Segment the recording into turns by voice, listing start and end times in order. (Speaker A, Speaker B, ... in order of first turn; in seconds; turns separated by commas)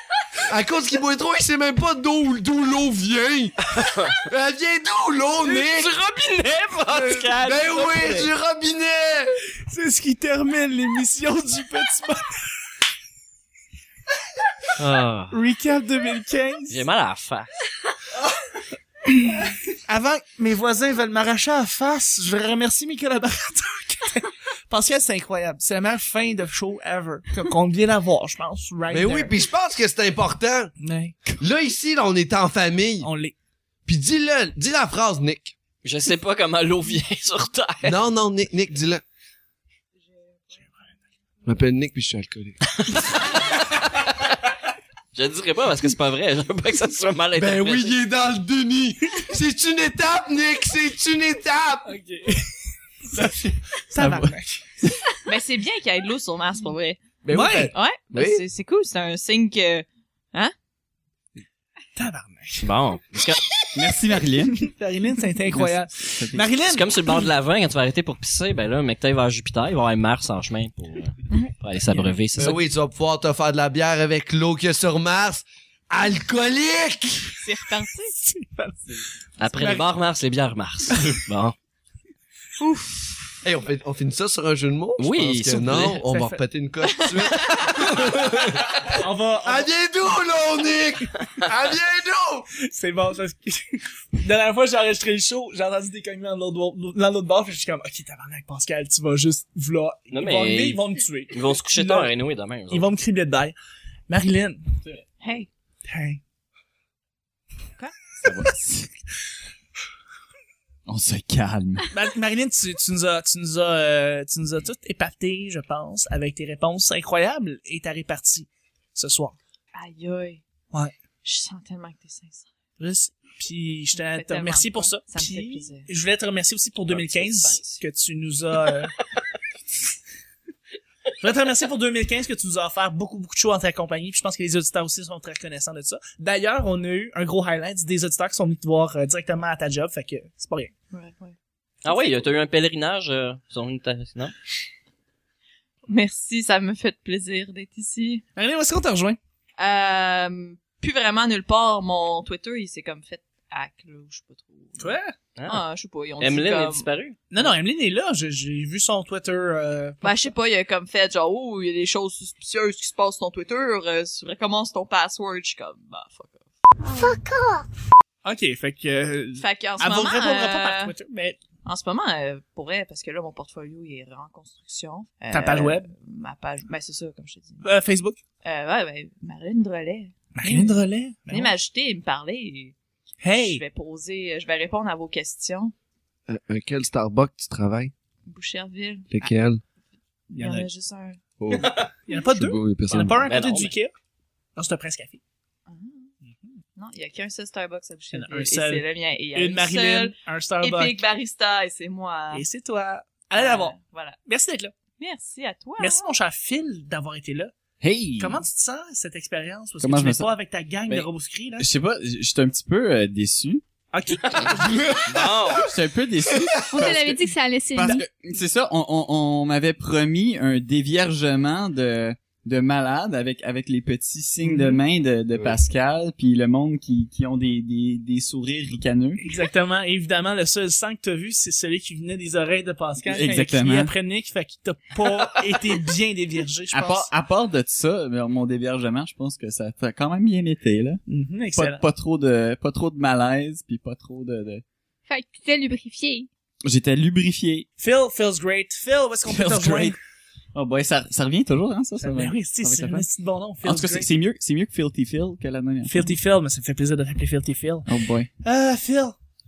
Speaker A: 0.5-5.9, Speaker B: 3.7-4.2, Speaker B: 6.0-8.1, Speaker C: 6.8-7.2, Speaker A: 6.9-9.3, Speaker C: 9.7-12.4, Speaker B: 14.8-15.4, Speaker C: 15.3-16.8, Speaker B: 16.7-17.5, Speaker C: 19.2-29.3, Speaker A: 28.9-30.7, Speaker C: 30.8-31.3, Speaker A: 31.4-33.1, Speaker C: 33.0-33.3, Speaker A: 33.9-35.5, Speaker B: 35.8-38.0, Speaker A: 37.8-39.0, Speaker A: 41.4-42.7, Speaker B: 42.8-44.0, Speaker B: 45.1-48.0, Speaker A: 47.4-52.0, Speaker C: 51.9-52.5, Speaker C: 53.1-54.6, Speaker D: 53.9-55.0, Speaker E: 55.2-57.0, Speaker A: 57.2-58.4, Speaker C: 57.3-57.7, Speaker E: 57.7-60.5, Speaker C: 62.0-62.7, Speaker B: 62.6-63.4, Speaker D: 63.7-64.7, Speaker C: 64.6-67.2, Speaker D: 65.5-66.5, Speaker B: 66.7-72.6, Speaker A: 72.4-77.3, Speaker E: 77.4-78.2, Speaker C: 78.2-79.8, Speaker B: 79.4-81.5, Speaker E: 82.6-83.3, Speaker A: 83.4-92.5, Speaker B: 85.0-86.0, Speaker C: 85.8-86.4, Speaker E: 86.9-87.7, Speaker C: 88.8-89.7, Speaker C: 92.6-102.1, Speaker B: 100.1-102.9, Speaker C: 102.7-103.5, Speaker C: 104.1-104.6, Speaker E: 105.2-105.5, Speaker C: 105.9-106.2, Speaker D: 108.2-108.9, Speaker D: 110.9-111.9, Speaker C: 111.9-119.4, Speaker E: 119.7-120.4, Speaker E: 121.2-122.5, Speaker C: 122.8-128.9, Speaker E: 123.9-125.9, Speaker B: 126.9-127.8, Speaker C: 131.2-140.7, Speaker E: 140.9-141.3, Speaker B: 141.8-144.3, Speaker E: 141.9-142.2, Speaker E: 145.8-148.2, Speaker C: 148.3-149.2, Speaker E: 149.6-154.9, Speaker C: 154.8-155.1, Speaker B: 155.3-155.6, Speaker E: 155.5-156.9, Speaker B: 156.2-157.2, Speaker C: 157.3-160.3, Speaker E: 160.0-166.4, Speaker C: 168.2-171.4, Speaker E: 169.4-170.9, Speaker E: 171.6-177.7, Speaker C: 175.3-175.9, Speaker C: 177.6-178.2, Speaker E: 178.4-180.8, Speaker C: 180.3-181.5, Speaker E: 181.3-182.7, Speaker C: 183.2-183.6, Speaker E: 183.3-185.7, Speaker A: 186.3-187.9, Speaker E: 188.2-189.3, Speaker A: 189.1-189.6, Speaker C: 190.3-190.7, Speaker E: 190.3-191.2, Speaker A: 191.4-193.2, Speaker C: 192.1-193.9, Speaker B: 193.2-193.7, Speaker C: 194.6-195.2, Speaker E: 195.7-196.1, Speaker C: 196.2-196.5, Speaker E: 196.8-202.4, Speaker C: 198.1-201.0, Speaker C: 202.3-204.7, Speaker E: 203.3-204.2, Speaker E: 205.0-206.1, Speaker C: 205.8-207.5, Speaker D: 207.8-208.4, Speaker C: 208.2-211.7, Speaker D: 209.8-210.3, Speaker D: 210.9-213.6, Speaker C: 213.9-214.8, Speaker A: 214.7-215.6, Speaker B: 215.1-215.7, Speaker D: 215.6-217.2, Speaker A: 216.3-216.9, Speaker F: 216.7-218.0, Speaker D: 217.7-229.2, Speaker C: 224.4-224.8, Speaker C: 229.2-237.1, Speaker D: 233.1-233.9, Speaker D: 236.7-241.0, Speaker C: 241.1-241.8, Speaker D: 241.6-244.6, Speaker F: 245.1-246.3, Speaker D: 246.6-247.7, Speaker C: 247.8-250.0, Speaker D: 249.2-250.0, Speaker D: 250.5-253.1, Speaker C: 252.0-254.1, Speaker D: 253.6-256.1, Speaker C: 255.8-257.9, Speaker D: 257.9-258.3, Speaker C: 258.4-259.1